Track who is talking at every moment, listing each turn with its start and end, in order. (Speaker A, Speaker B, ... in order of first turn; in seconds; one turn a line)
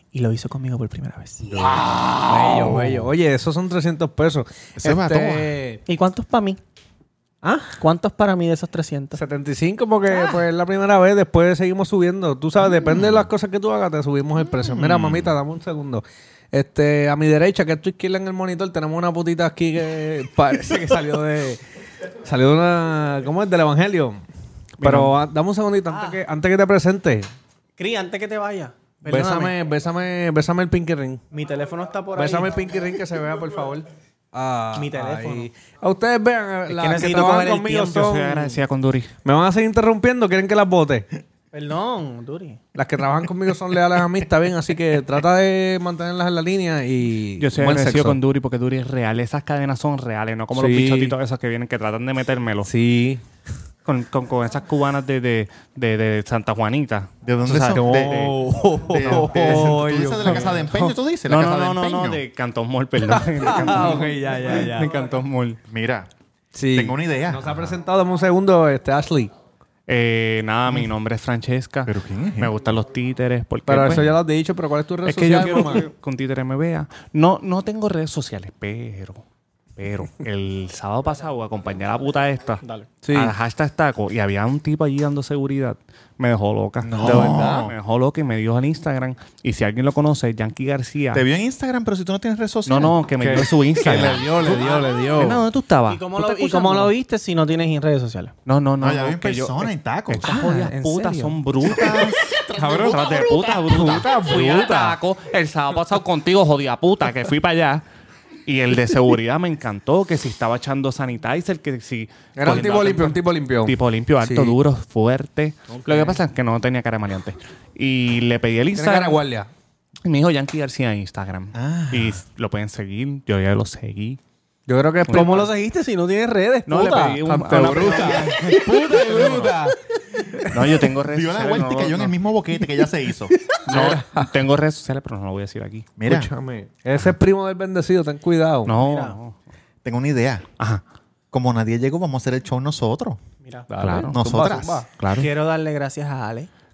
Speaker A: 0.1-1.4
Speaker B: 1.5-3.1
Speaker C: 1.5-5.8
Speaker B: 4.8-5.6
Speaker A: 5.8-6.6
Speaker C: 7.4-7.8
Speaker A: 7.8-9.2
Speaker C: 9.2-21.6
Speaker B: 12.6-13.3
Speaker B: 14.4-15.3
Speaker C: 22.2-24.2
Speaker D: 24.8-25.1
Speaker C: 24.8-27.3
Speaker A: 25.9-26.2
Speaker A: 27.8-29.6
Speaker C: 29.1-31.2
Speaker A: 31.3-32.7
Speaker C: 32.1-38.6
Speaker A: 34.7-35.5
Speaker A: 36.7-38.1
Speaker D: 37.9-39.1
Speaker C: 39.2-41.1
Speaker A: 41.5-42.6
Speaker C: 42.7-48.2
Speaker D: 47.4-52.7
Speaker C: 50.5-51.1
Speaker C: 52.6-53.2
Speaker D: 53.9-59.8
Speaker B: 57.2-62.2
Speaker C: 57.5-60.9
Speaker D: 61.2-65.6
Speaker C: 63.1-64.9
Speaker B: 65.7-66.1
Speaker C: 66.5-69.3
Speaker B: 66.7-67.8
Speaker D: 69.9-74.2
Speaker B: 71.8-72.5
Speaker C: 73.7-75.9
Speaker D: 75.0-79.2
Speaker A: 75.4-75.7
Speaker D: 79.8-91.2
Speaker C: 83.0-83.3
Speaker B: 86.8-87.7
Speaker C: 87.0-87.5
Speaker B: 91.1-93.0
Speaker D: 92.7-96.9
Speaker C: 93.2-95.4
Speaker A: 95.9-98.3
Speaker D: 98.5-107.8
Speaker B: 98.8-100.3
Speaker A: 100.2-101.4
Speaker B: 101.6-102.2
Speaker C: 102.5-105.0
Speaker D: 108.5-119.2
Speaker C: 112.4-114.5
Speaker C: 115.7-116.1
Speaker C: 118.7-119.5
Speaker D: 120.0-124.2
Speaker B: 121.5-122.2
Speaker C: 124.7-125.5
Speaker D: 125.1-125.5
Speaker A: 125.1-127.2
Speaker D: 126.7-128.6
Speaker C: 127.2-129.7
Speaker B: 128.0-129.6
Speaker D: 130.5-132.2
Speaker B: 130.5-133.4
Speaker C: 133.5-134.3
Speaker D: 133.7-135.9
Speaker B: 136.0-136.3
Speaker C: 136.1-138.7
Speaker D: 138.7-139.3
Speaker A: 138.8-139.2
Speaker B: 139.8-140.4
Speaker B: 141.3-143.2
Speaker C: 143.7-144.9
Speaker D: 143.8-144.1
Speaker B: 144.0-144.8
Speaker D: 145.0-145.3
Speaker A: 145.2-146.5